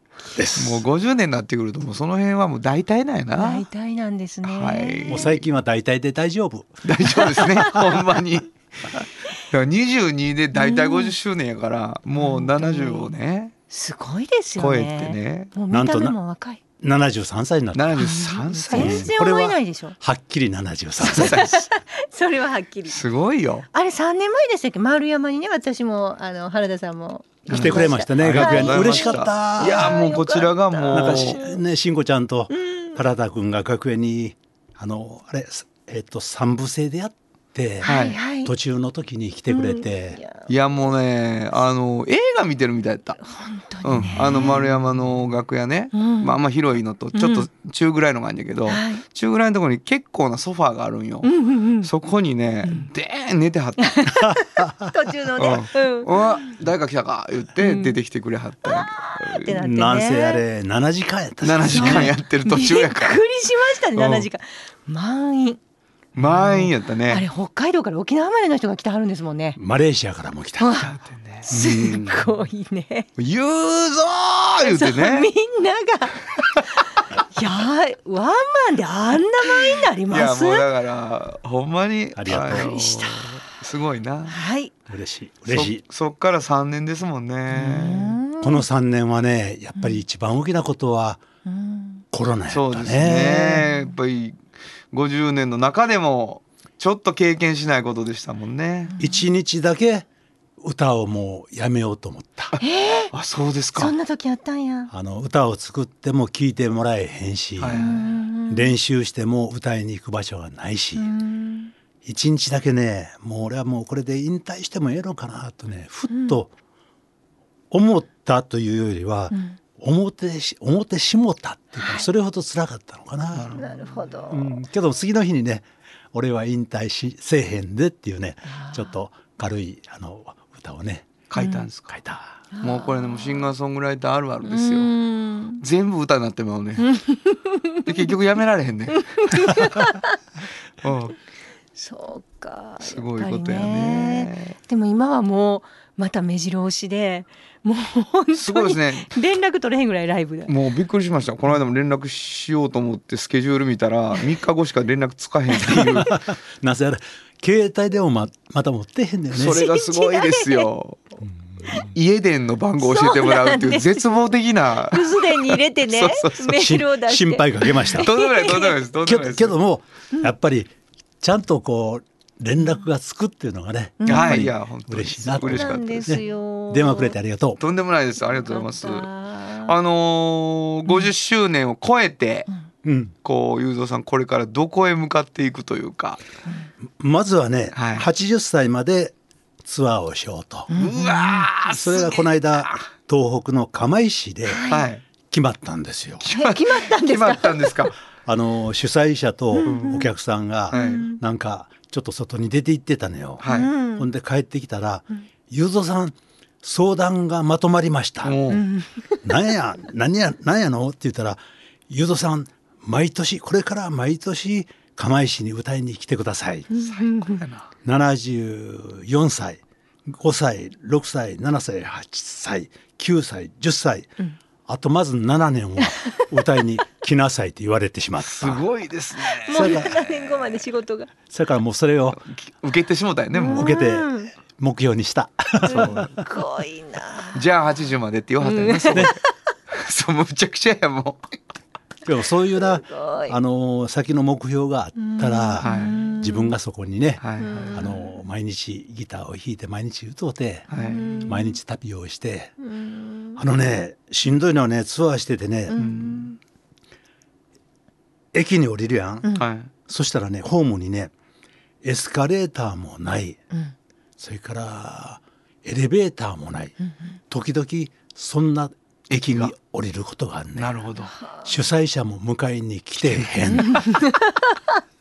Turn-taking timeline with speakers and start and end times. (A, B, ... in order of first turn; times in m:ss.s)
0:00.3-0:00.8 A
0:00.6-0:03.7 B
0:03.4-0:05.3 C
0:04.4-0:05.4 B
0:05.1-0:07.4 A
0:06.8-0:13.5 B
0:07.2-0:07.7 C
0:10.5-0:11.2 C
0:12.2-0:13.1 C
0:13.7-0:16.6 C
0:14.6-0:15.5 B
0:15.7-0:16.2 A
0:16.8-0:18.0 A
0:17.7-0:19.1 B
0:18.0-0:20.0 C
0:18.7-0:21.4 A
0:21.0-0:23.0 C
0:21.1-0:21.6 B
0:22.9-0:23.7 B
0:23.7-0:31.6 C
0:27.5-0:31.4 B
0:27.5-0:30.0 A
0:30.9-0:40.2 A
0:32.5-0:33.0 C
0:37.8-0:38.5 C
0:37.8-0:38.2 B
0:39.5-0:40.5 C
0:40.5-0:43.2 B
0:43.2-0:44.7 C
0:43.8-0:54.0 B
0:45.9-0:46.4 C
0:47.2-0:47.5 C
0:48.7-0:49.0 C
0:51.2-0:51.9 C
0:53.8-0:56.5 C
0:54.5-0:54.9 A
0:55.4-0:59.6 B
0:57.6-0:58.0 C
0:58.7-1:00.4 C
0:59.6-1:02.1 A
1:01.4-1:03.2 B
1:01.7-1:05.6 C
1:04.0-1:04.3 B
1:06.2-1:07.3 B
1:06.2-1:09.6 C
1:09.6-1:10.8 A
1:10.6-1:11.0 C
1:10.8-1:12.0 B
1:11.5-1:13.1 C
1:11.5-1:12.2 A
1:13.2-1:15.3 B
1:14.6-1:16.2 C
1:17.3-1:20.7 C
1:20.1-1:24.4 B
1:22.2-1:22.7 A
1:22.3-1:23.4 C
1:24.3-1:24.7 C
1:24.9-1:25.8 A
1:25.5-1:28.2 B
1:27.5-1:28.6 C
1:28.4-1:31.2 A
1:29.8-1:30.0 C
1:31.5-1:32.0 C
1:32.1-1:33.6 A
1:32.5-1:34.4 B
1:34.9-1:38.9 B
1:38.9-1:39.2 C
1:39.0-1:40.1 A
1:40.6-1:42.6 A
1:42.6-1:43.1 C
1:43.1-1:43.9 B
1:43.7-1:44.9 C
1:44.9-1:47.9 A
1:47.6-1:48.0 B
1:47.7-1:48.7 C
1:48.5-1:51.1 A
1:51.0-1:51.7 C
1:52.0-1:56.5 A
1:56.1-1:56.4 C
1:57.7-2:03.6 A
1:59.3-1:59.6 C
2:01.8-2:02.1 C
2:03.3-2:04.1 B
2:03.6-2:04.6 C
2:04.3-2:11.2 A
2:08.5-2:09.0 C
2:11.3-2:12.0 B
2:11.4-2:11.7 C
2:11.9-2:12.4 A
2:12.5-2:13.5 C
2:12.6-2:14.9 B
2:14.4-2:15.6 C
2:15.6-2:16.9 B
2:16.8-2:17.8 C
2:17.8-2:19.6 B
2:19.0-2:20.2 C
2:20.8-2:21.2 B
2:21.8-2:30.5 C
2:22.8-2:24.6 B
2:28.3-2:29.1 B
2:30.5-2:36.1 B
2:35.6-2:36.0 C
2:36.0-2:39.6 A
2:39.3-2:46.6 B
2:39.4-2:40.7 C
2:42.8-2:44.1 C
2:44.9-2:48.8 C
2:46.5-2:48.1 A
2:47.9-2:49.6 B
2:49.0-2:57.6 A
2:54.0-2:54.5 C
2:54.1-2:56.2 B
2:55.4-2:57.2 C
2:57.6-2:59.1 B
2:58.3-2:59.7 C
2:59.6-3:02.5 B
3:02.8-3:03.1 A
3:03.2-3:06.2 B
3:07.0-3:10.7 A
3:07.7-3:08.1 B
3:10.7-3:11.5 C
3:10.8-3:12.8 B
3:11.6-3:14.6 A
3:14.5-3:14.9 C
3:14.7-3:15.0 B
3:15.2-3:16.2 A
3:16.2-3:18.0 B
3:16.3-3:17.9 C
3:18.2-3:28.4 A
3:19.6-3:20.1 C
3:19.6-3:20.0 B
3:20.7-3:21.0 B
3:20.7-3:21.2 C
3:23.4-3:23.7 B
3:23.5-3:24.1 C
3:28.2-3:28.6 B
3:28.5-3:29.3 C
3:29.2-3:36.7 A
3:36.7-3:37.4 C
3:36.8-3:37.7 B
3:37.8-3:44.1 A
3:44.7-3:48.6 A
3:48.2-3:50.1 B
3:49.4-3:51.1 C
3:49.5-3:50.0 A
3:51.3-3:52.2 A
3:52.1-3:53.8 B
3:53.3-3:54.3 C
3:53.5-3:56.2 A
3:55.7-3:57.4 C
3:55.7-3:56.1 B
3:57.3-3:59.2 B
3:58.4-3:59.2 C
3:59.7-4:01.2 B
4:02.0-4:12.6 A
4:02.6-4:03.4 C
4:05.0-4:06.5 C
4:05.6-4:06.0 B
4:07.2-4:07.8 B
4:07.4-4:08.1 C
4:10.7-4:11.3 B
4:10.8-4:11.6 C
4:12.6-4:13.4 C
4:13.4-4:15.8 A
4:15.7-4:16.4 C
4:15.8-4:16.3 B
4:18.3-4:21.1 A
4:19.4-4:19.7 B
4:21.8-4:23.4 A
4:24.2-4:26.8 A
4:27.3-4:30.8 A
4:29.1-4:29.5 B
4:30.6-4:31.2 B
4:31.4-4:33.9 A
4:33.0-4:33.6 B
4:33.5-4:34.6 C